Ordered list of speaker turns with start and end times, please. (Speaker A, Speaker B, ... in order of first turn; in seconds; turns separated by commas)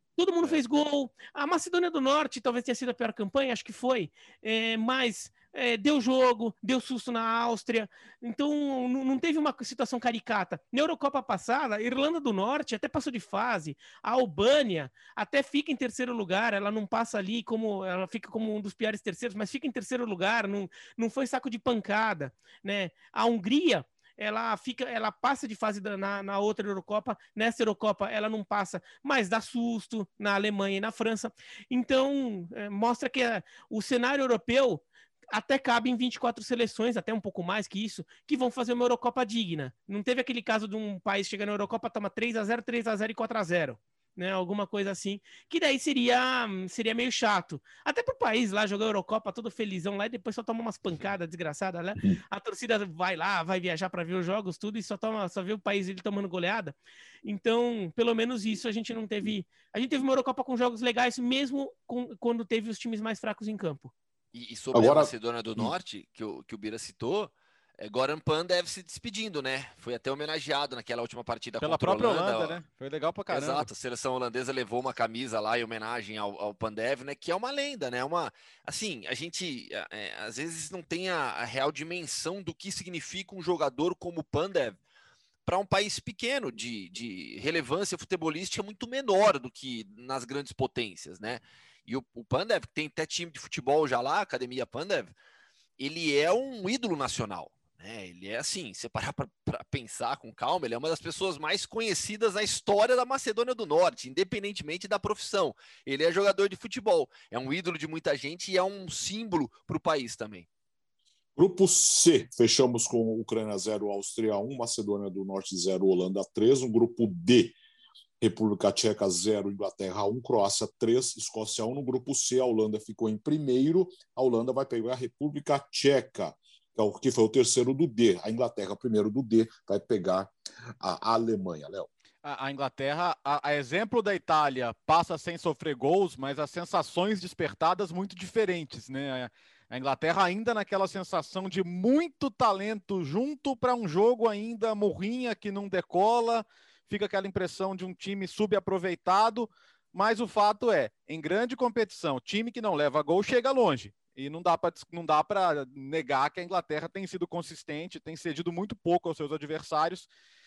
Speaker A: 0.2-63.9, Speaker B: 64.3-72.6, Speaker C: 64.7-65.7, Speaker D: 71.6-73.7, Speaker B: 73.3-84.8, Speaker B: 85.5-95.1, Speaker B: 95.8-110.5, Speaker C: 111.4-117.6, Speaker C: 118.2-131.9, Speaker D: 132.2-160.1